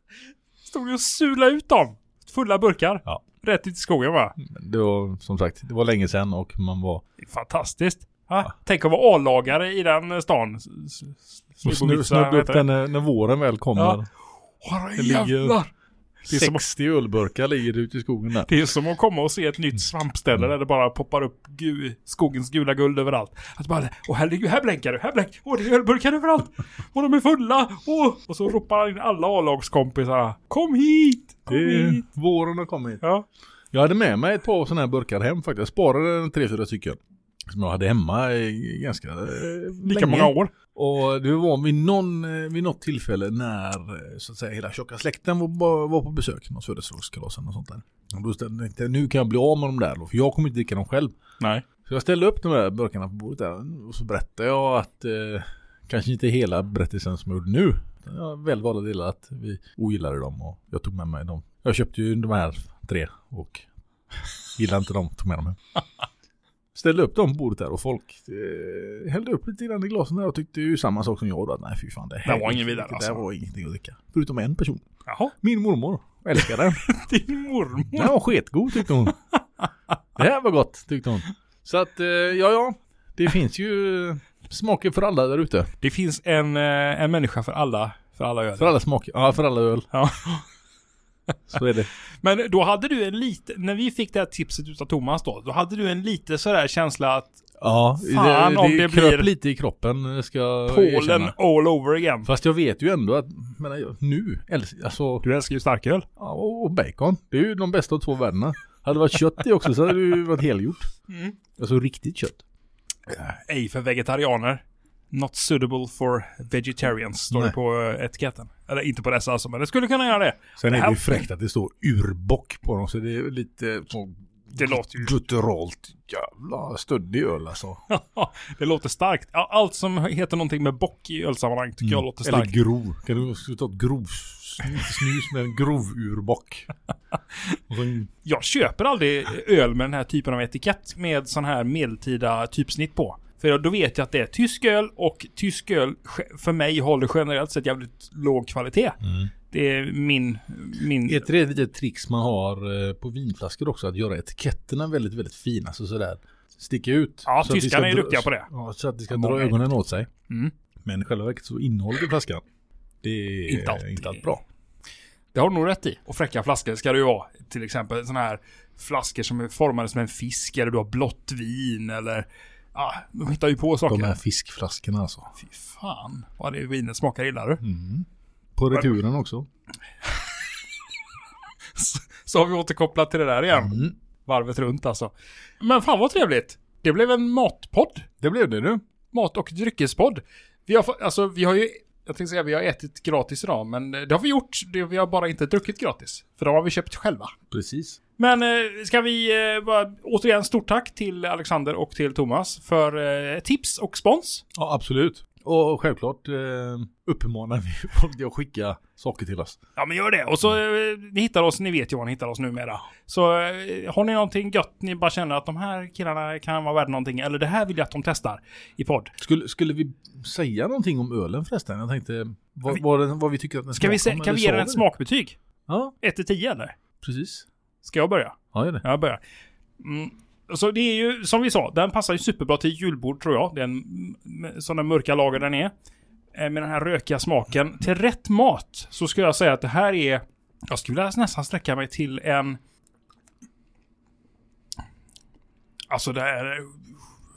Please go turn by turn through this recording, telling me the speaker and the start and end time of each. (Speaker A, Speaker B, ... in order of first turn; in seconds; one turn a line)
Speaker A: 0.7-4.4
Speaker B: 4.4-7.0
Speaker A: 7.2-12.7
Speaker B: 11.6-14.1
Speaker A: 14.6-15.7
Speaker B: 15.0-15.6
Speaker A: 16.2-16.6
Speaker B: 16.3-18.5
Speaker A: 18.5-32.0
Speaker B: 31.5-33.0
Speaker B: 33.7-51.2
Speaker A: 39.8-40.5
Speaker A: 51.4-51.6
Speaker B: 51.8-63.7
Speaker B: 64.6-65.6
Speaker B: 66.8-74.8
Speaker A: 72.2-73.2
Speaker A: 75.1-75.3
Speaker B: 75.4-76.9
Speaker A: 76.4-78.2
Speaker B: 77.9-79.2
Speaker B: 80.2-85.7
Speaker A: 85.8-88.8
Speaker B: 88.6-89.9
Speaker A: 89.9-90.5
Speaker B: 91.5-91.9
Speaker A: 92.2-97.4
Speaker B: 97.6-101.3
Speaker A: 98.0-99.3
Speaker A: 100.7-102.3
Speaker B: 102.2-105.2
Speaker A: 105.2-106.1
Speaker B: 106.2-110.9
Speaker A: 111.1-111.3
Speaker B: 111.6-112.4
Speaker A: 113.1-121.2
Speaker B: 120.6-127.8
Speaker A: 124.5-125.1
Speaker A: 127.9-132.6
Speaker B: 131.8-136.7
Speaker B: 137.7-138.1
Speaker A: 138.2-151.3
Speaker B: 149.0-149.3
Speaker B: 151.1-160.1
Speaker A: 157.3-158.5
Speaker A: 159.1-159.6
Speaker A: 160.3-160.5
Speaker B: 160.8-162.4
Speaker B: 163.0-164.4
Speaker A: 163.5-164.2
Speaker A: 165.3-174.2
Speaker B: 173.9-175.3
Speaker A: 175.4-177.6
Speaker B: 177.6-179.5
Speaker A: 181.8-188.1
Speaker B: 183.6-183.9
Speaker B: 188.2-188.8
Speaker A: 189.1-197.3
Speaker B: 197.5-198.0
Speaker A: 198.2-204.4
Speaker B: 204.6-209.6
Speaker A: 209.8-219.1
Speaker B: 219.2-224.8
Speaker A: 223.8-225.4
Speaker B: 225.7-225.9
Speaker A: 226.0-226.8
Speaker B: 227.0-227.5
Speaker A: 227.8-229.2
Speaker B: 228.5-228.8
Speaker A: 229.8-235.7
Speaker A: 236.3-242.6
Speaker A: 245.9-246.9